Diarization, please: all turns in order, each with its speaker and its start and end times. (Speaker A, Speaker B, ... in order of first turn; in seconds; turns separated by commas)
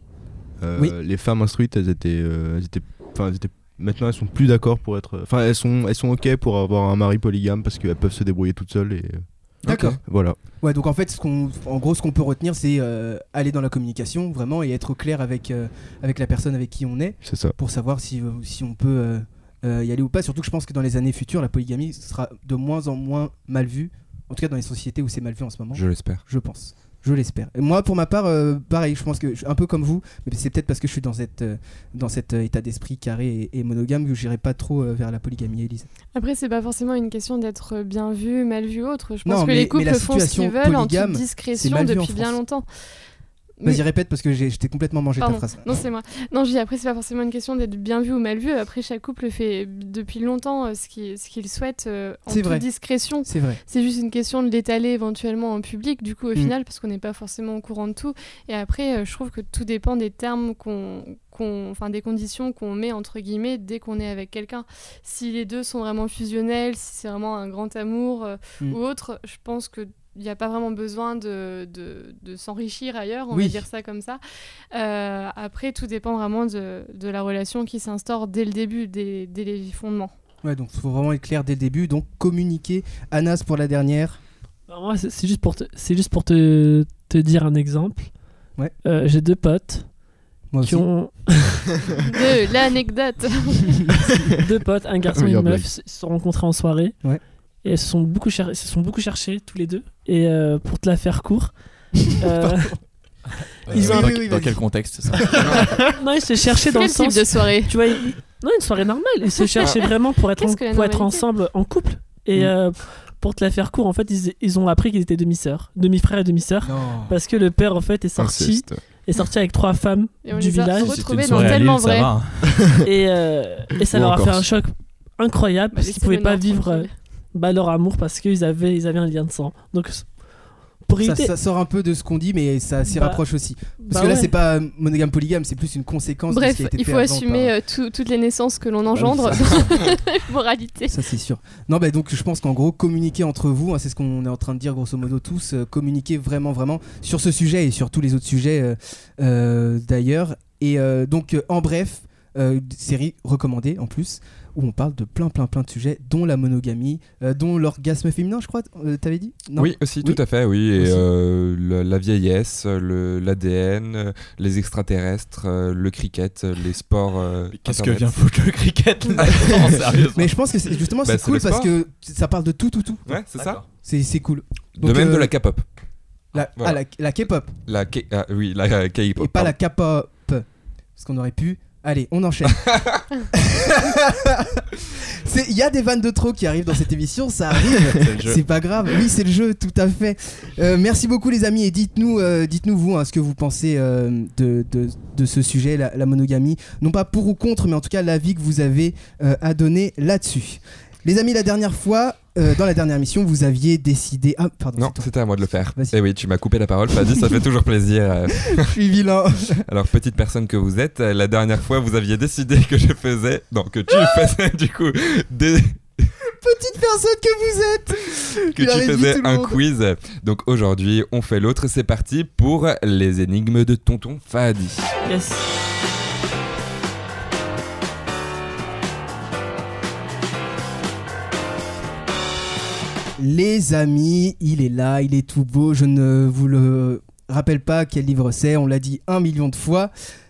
Speaker A: 0.6-9.2, Speaker B: 9.6-10.0, Speaker C: 9.6-10.0, Speaker A: 10.0-10.3, Speaker B: 10.6-35.9, Speaker A: 17.2-17.5, Speaker C: 25.7-26.2, Speaker D: 36.1-42.6, Speaker B: 39.2-42.4, Speaker B: 43.6-45.8, Speaker D: 45.2-74.2, Speaker B: 52.3-52.6, Speaker B: 53.2-53.6, Speaker B: 73.3-73.6, Speaker D: 74.7-80.1, Speaker B: 80.4-84.2, Speaker E: 84.7-88.1, Speaker E: 88.8-89.9, Speaker B: 90.5-90.8, Speaker E: 90.6-91.7, Speaker D: 92.0-94.1, Speaker E: 94.3-97.0, Speaker A: 95.1-95.7, Speaker E: 97.6-101.5, Speaker B: 101.9-102.7, Speaker E: 102.2-102.8, Speaker F: 103.7-105.7, Speaker E: 103.7-104.2, Speaker B: 103.7-104.6, Speaker B: 105.1-105.6, Speaker E: 105.3-121.6, Speaker D: 106.7-107.8, Speaker D: 109.5-111.2, Speaker B: 116.6-117.2, Speaker A: 118.2-118.8, Speaker D: 120.2-122.1, Speaker F: 120.7-122.6, Speaker A: 122.5-122.8, Speaker E: 122.8-130.1, Speaker A: 123.8-124.5, Speaker D: 125.7-127.0, Speaker E: 130.9-131.3, Speaker B: 131.0-137.5, Speaker E: 132.8-133.2, Speaker E: 133.8-134.3, Speaker D: 136.3-141.0, Speaker B: 138.9-139.6, Speaker B: 140.9-160.2, Speaker C: 159.6-168.2, Speaker F: 167.5-170.4, Speaker C: 169.2-169.8, Speaker B: 170.1-173.1, Speaker C: 171.0-171.7, Speaker C: 173.1-173.6, Speaker F: 173.3-173.6, Speaker B: 173.8-175.3, Speaker C: 174.8-175.6, Speaker B: 176.3-177.5, Speaker C: 177.7-179.5, Speaker B: 179.2-180.4, Speaker B: 181.0-182.6, Speaker C: 182.5-183.0, Speaker B: 183.3-205.1, Speaker F: 187.7-188.4, Speaker C: 204.8-208.7, Speaker B: 208.4-209.6, Speaker C: 209.7-215.8, Speaker B: 216.2-219.6, Speaker C: 218.5-224.9, Speaker E: 225.0-225.5, Speaker B: 233.2-239.9